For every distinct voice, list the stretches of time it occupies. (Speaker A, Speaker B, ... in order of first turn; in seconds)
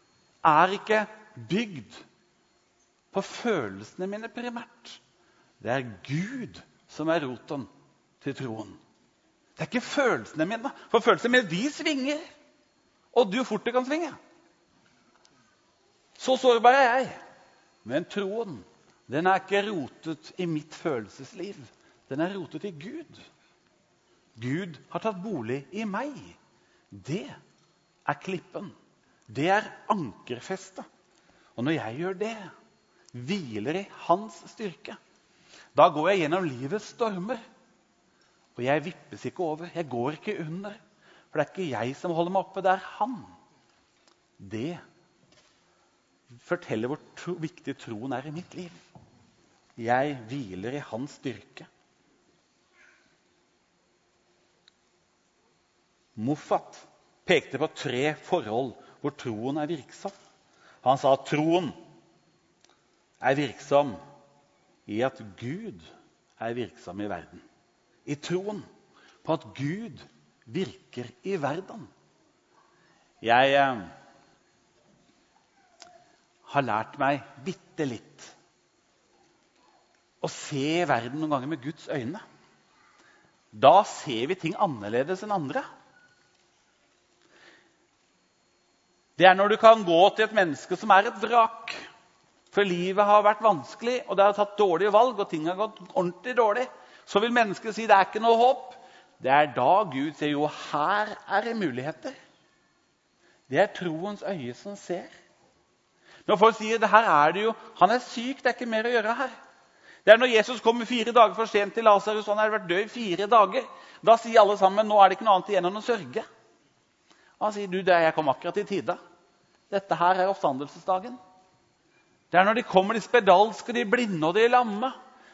Speaker A: 0.4-2.0, 3.1-5.0, 5.6-7.7, 8.2-8.8, 9.6-12.2, 13.1-14.2, 16.2-17.2, 17.8-23.2, 24.4-26.4, 26.9-27.4, 28.1-28.8, 29.3-30.9, 31.6-32.5, 33.1-35.0, 35.8-37.4, 38.6-40.8, 41.3-43.3, 44.4-44.8, 46.4-48.8, 49.8-51.7, 56.2-60.1, 60.8-61.8, 63.2-64.0, 64.9-65.9, 66.4-67.5, 68.0-68.7, 69.2-71.9, 73.2-73.9, 76.5-78.3, 80.2-82.2, 83.5-85.6, 89.2-91.8, 92.5-102.2, 103.5-105.1, 106.3-109.3, 110.0-116.2, 117.4-119.0, 119.7-121.2, 122.3-125.0